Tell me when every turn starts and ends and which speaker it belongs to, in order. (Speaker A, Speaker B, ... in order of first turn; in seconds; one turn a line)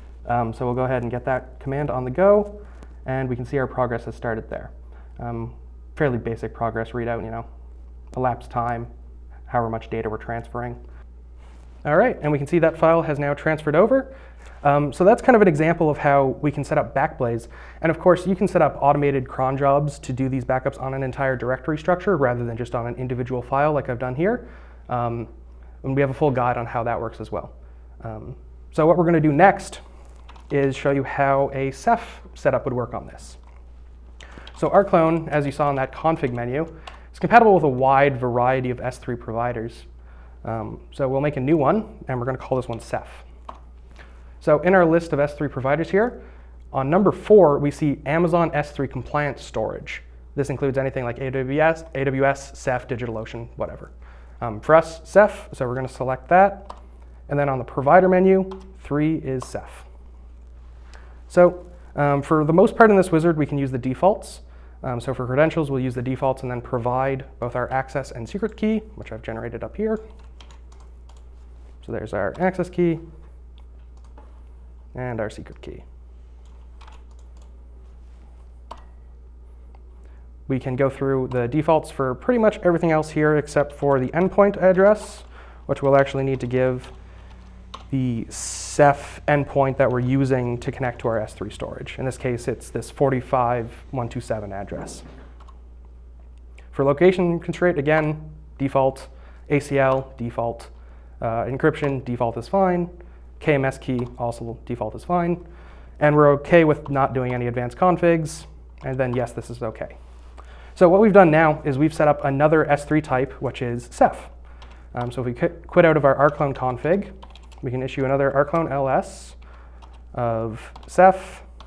Speaker A: 0.2-7.5
Speaker A: 8.1-8.9
Speaker A: 9.5-10.8
Speaker A: 11.8-25.3
Speaker A: 25.8-29.8
Speaker A: 30.5-33.4
Speaker A: 34.5-39.9
Speaker A: 40.4-43.3
Speaker A: 44.4-46.2
Speaker A: 46.7-56.7
Speaker A: 57.3-59.9
Speaker A: 61.3-70.0
Speaker A: 71.8-73.0
Speaker A: 74.9-75.8
Speaker A: 80.5-86.9
Speaker A: 87.9-95.0
Speaker A: 96.7-105.4
Speaker A: 106.0-110.0
Speaker A: 110.8-114.3
Speaker A: 114.9-119.4
Speaker A: 120.1-121.5